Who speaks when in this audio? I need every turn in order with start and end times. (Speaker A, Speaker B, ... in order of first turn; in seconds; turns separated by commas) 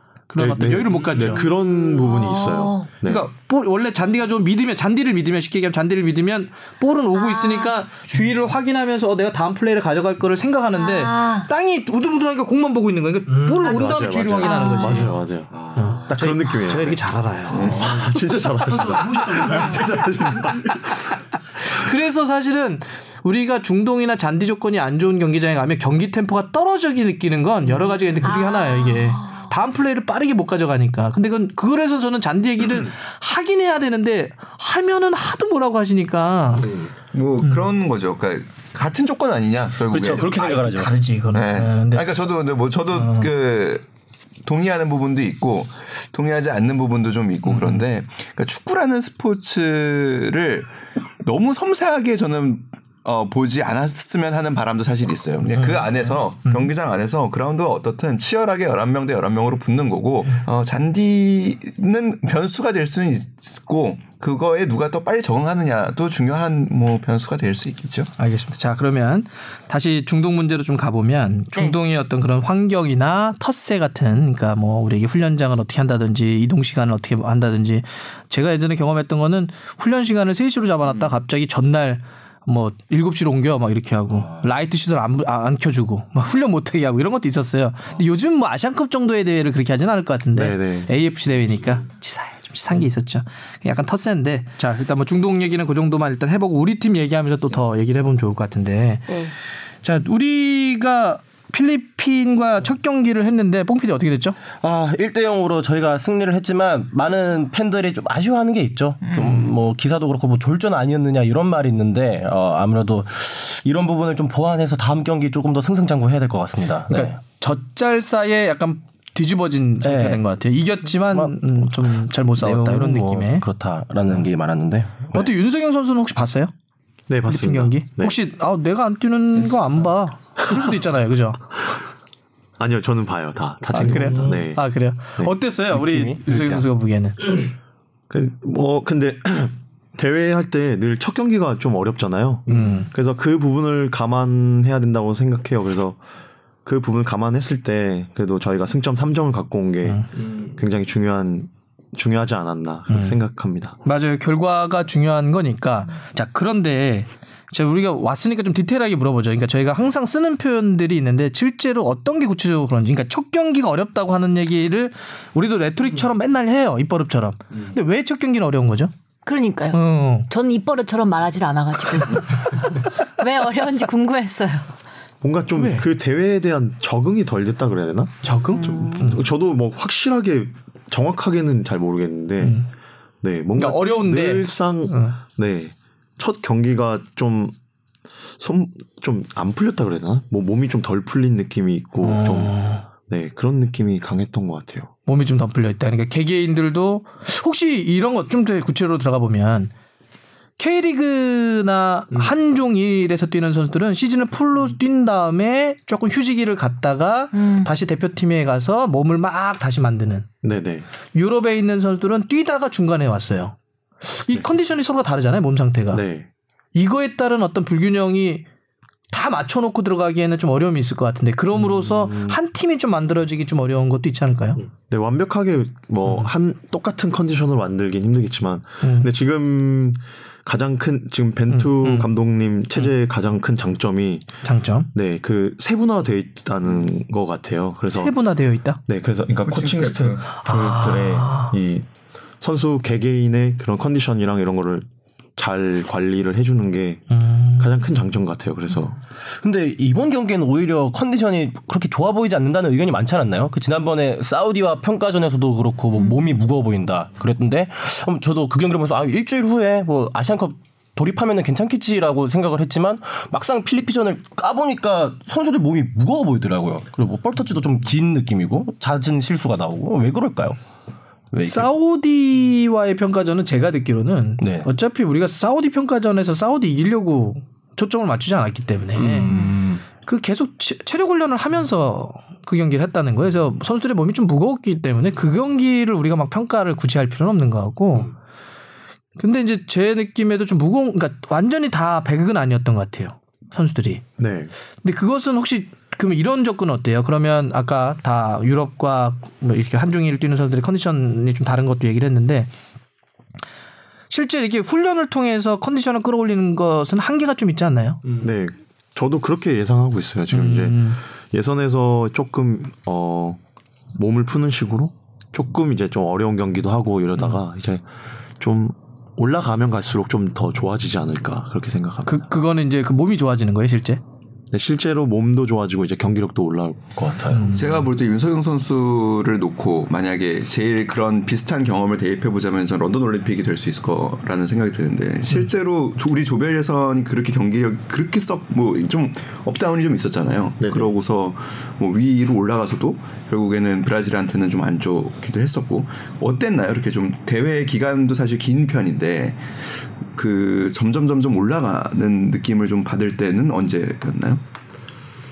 Speaker A: 0.3-1.4, Speaker B: 0.4-3.3, Speaker C: 1.4-2.9, Speaker A: 3.0-15.1, Speaker C: 7.1-7.7, Speaker C: 10.7-11.5, Speaker B: 13.6-21.1, Speaker C: 14.4-15.1, Speaker A: 15.8-20.7, Speaker D: 17.5-17.9, Speaker A: 21.6-36.7, Speaker C: 28.2-29.5, Speaker E: 36.6-36.9, Speaker D: 37.1-40.4, Speaker A: 37.4-37.7, Speaker E: 39.9-41.0, Speaker A: 40.3-42.2, Speaker D: 41.3-43.8, Speaker A: 42.9-43.3, Speaker D: 44.4-68.1, Speaker A: 47.5-47.8, Speaker A: 68.2-99.3, Speaker B: 90.3-90.9, Speaker A: 99.8-104.4, Speaker E: 104.6-117.2, Speaker C: 109.0-109.4, Speaker A: 116.9-123.5, Speaker E: 119.8-120.2, Speaker E: 121.1-121.3, Speaker E: 122.3-125.3, Speaker A: 125.1-126.5, Speaker B: 127.1-128.2, Speaker A: 127.3-131.5, Speaker B: 132.6-134.6, Speaker A: 133.7-137.2, Speaker E: 135.7-136.6, Speaker B: 138.1-146.0, Speaker A: 142.5-142.9, Speaker B: 146.6-153.8, Speaker A: 152.9-153.2, Speaker A: 153.8-168.9, Speaker C: 169.2-174.7, Speaker A: 169.7-170.3, Speaker B: 175.2-182.6, Speaker A: 175.6-175.8, Speaker A: 178.2-179.2, Speaker C: 178.6-179.1, Speaker A: 182.4-182.7, Speaker B: 183.2-187.5, Speaker A: 183.6-185.2, Speaker B: 188.4-194.9, Speaker A: 192.0-192.8, Speaker A: 195.1-199.7, Speaker A: 200.6-210.3, Speaker C: 207.3-207.7, Speaker B: 210.4-210.9, Speaker A: 211.1-216.0, Speaker B: 215.9-216.3, Speaker A: 216.7-218.4, Speaker A: 219.1-224.6, Speaker B: 224.9-234.3, Speaker A: 228.8-229.1, Speaker A: 231.5-232.1, Speaker A: 234.4-234.9, Speaker B: 234.9-238.2, Speaker A: 237.9-238.8, Speaker B: 238.8-241.9, Speaker D: 239.4-240.3, Speaker A: 240.4-241.5, Speaker B: 242.4-244.8, Speaker B: 245.4-249.0, Speaker A: 247.1-247.7, Speaker E: 249.4-270.6, Speaker E: 271.3-271.7, Speaker A: 271.4-288.1, Speaker E: 274.4-274.7, Speaker E: 278.9-279.8, Speaker A: 289.2-294.0, Speaker B: 294.2-294.5, Speaker A: 294.8-302.5, Speaker A: 304.1-308.0, Speaker B: 308.2-313.4, Speaker A: 310.3-311.0, Speaker B: 313.9-317.8, Speaker B: 318.4-322.2, Speaker A: 322.1-324.0, Speaker B: 324.5-327.6, Speaker A: 327.3-327.8, Speaker D: 327.5-349.6, Speaker B: 340.6-340.9, Speaker D: 350.1-354.4